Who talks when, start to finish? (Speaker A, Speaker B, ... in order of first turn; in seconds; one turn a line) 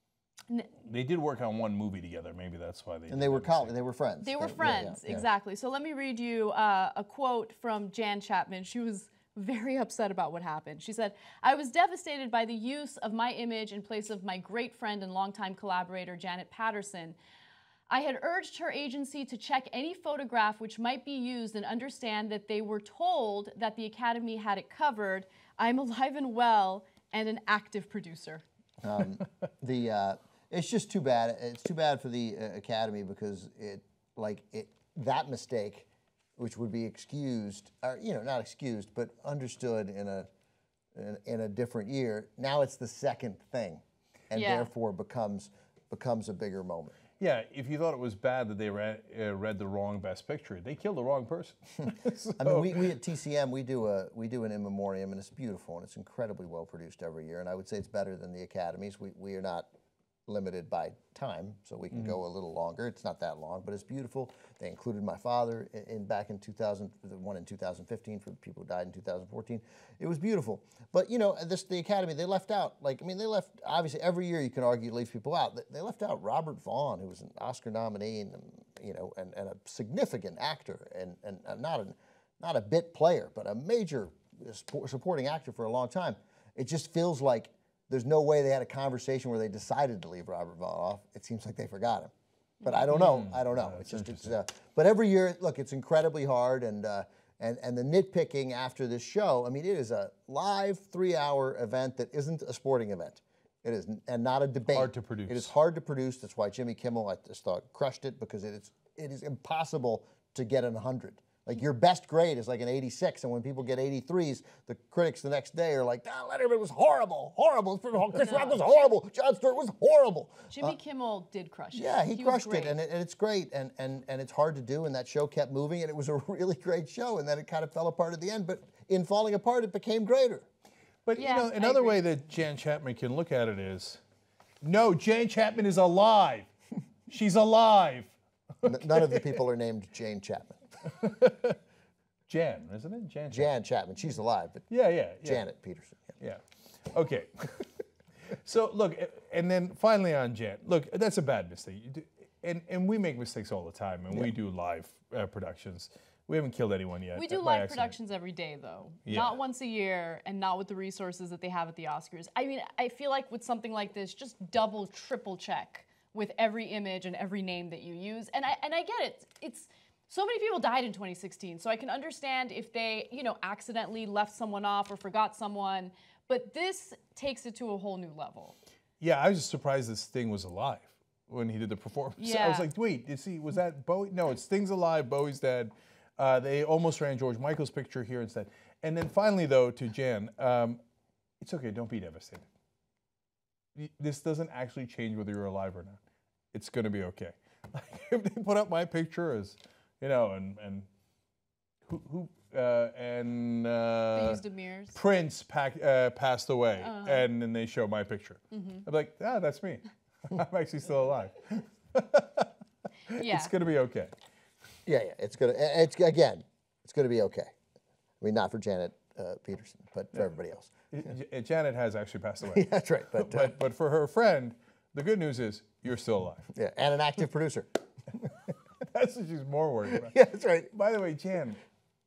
Speaker A: 0.8-3.7
Speaker B: 3.1-5.3
Speaker C: 4.2-17.2
Speaker C: 17.9-28.4
Speaker B: 28.8-40.3
Speaker B: 41.0-47.0
Speaker C: 44.3-44.7
Speaker A: 47.2-53.0
Speaker B: 52.4-59.7
Speaker B: 60.3-92.1
Speaker B: 92.6-120.8
Speaker A: 92.9-94.3
Speaker A: 104.7-105.5
Speaker C: 118.2-118.9
Speaker C: 120.5-122.8
Speaker B: 121.7-130.5
Speaker A: 131.1-134.0
Speaker C: 131.2-132.0
Speaker A: 134.6-136.5
Speaker A: 137.1-139.4
Speaker B: 138.6-140.6
Speaker A: 140.9-141.6
Speaker A: 142.3-143.5
Speaker B: 143.3-144.7
Speaker A: 144.7-145.5
Speaker B: 145.2-146.1
Speaker A: 146.2-147.7
Speaker A: 148.3-158.0
Speaker C: 157.1-178.6
Speaker A: 159.1-159.4
Speaker A: 179.0-190.8
Speaker C: 182.2-182.7
Speaker A: 191.4-192.5
Speaker A: 193.8-196.0
Speaker A: 196.5-200.9
Speaker A: 201.9-204.4
Speaker C: 204.1-205.0
Speaker A: 204.9-212.5
Speaker C: 206.8-207.3
Speaker C: 208.5-208.8
Speaker C: 213.1-213.5
Speaker A: 213.1-214.1
Speaker B: 214.9-217.5
Speaker B: 218.2-220.7
Speaker A: 220.9-226.5
Speaker B: 222.5-223.5
Speaker B: 226.5-227.7
Speaker A: 228.8-230.2
Speaker B: 230.1-230.7
Speaker A: 230.7-231.6